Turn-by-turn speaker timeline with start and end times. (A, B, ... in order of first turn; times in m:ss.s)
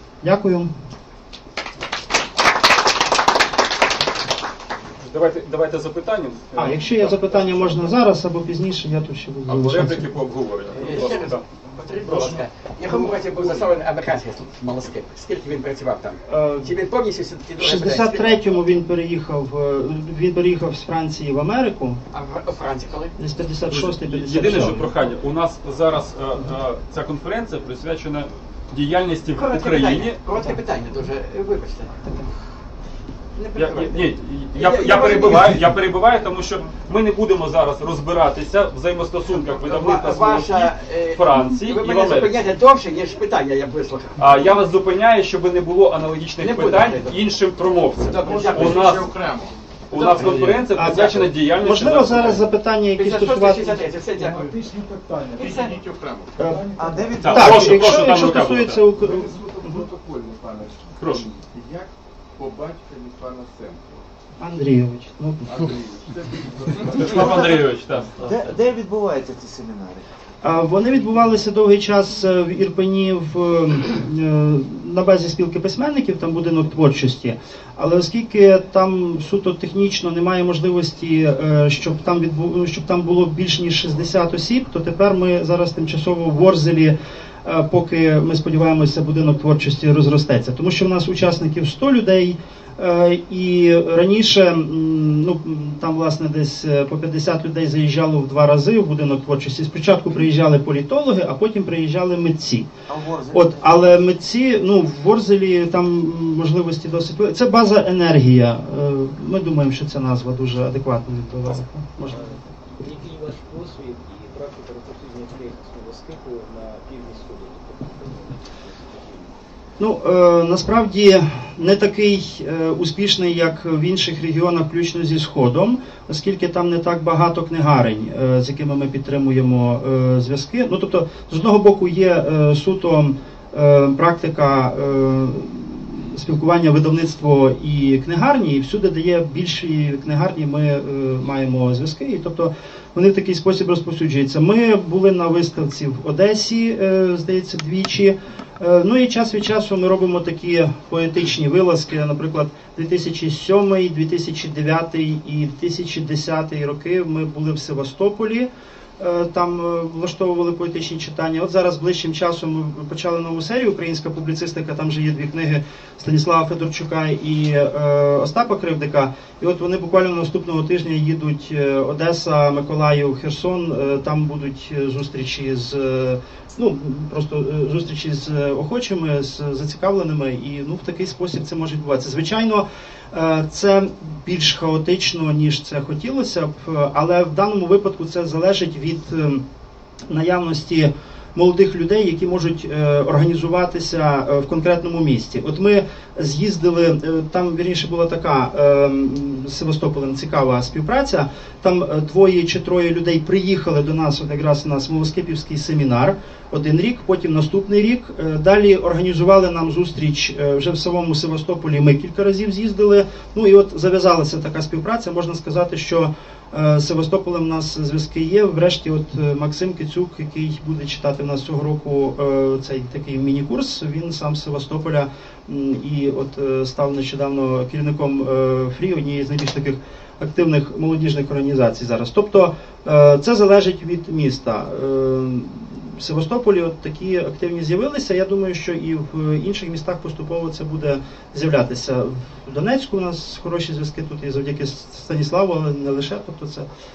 0:00.2-0:00.7 A
0:05.0-0:06.8 B
0:06.6-0:10.1 A
0:09.5-0:11.5 B
0:10.8-0:18.4 C
0:12.0-0:12.4 B
0:16.3-0:16.7 A
0:17.6-0:22.0 A
0:22.1-0:23.2 C
0:23.2-0:24.9 A
0:23.7-0:30.2 B
0:29.3-0:31.9 C
0:32.0-0:32.3 A
0:33.4-0:35.7 C
0:33.6-0:42.4 B
0:39.4-0:44.4 C
0:44.2-0:49.1 B
0:46.4-0:47.2 C
0:48.1-0:49.2 C
0:48.2-0:49.6 D
0:49.9-0:52.4 B
0:49.9-0:51.3 C
0:50.7-0:53.8 A
0:53.0-0:54.5 C
0:55.4-0:55.8 C
0:55.4-0:56.4 D
0:56.4-0:59.8 A
0:56.7-0:57.7 E
0:57.2-0:58.8 B
0:58.9-1:04.1 D
1:01.0-1:01.3 B
1:04.4-1:05.7 A
1:05.4-1:08.4 D
1:06.8-1:08.3 B
1:08.2-1:10.0 E
1:10.4-1:42.7 A
1:42.9-1:43.9 E
1:43.3-1:52.4 A
1:52.0-1:59.4 F
1:59.8-3:09.4 A
3:10.1-4:06.7 A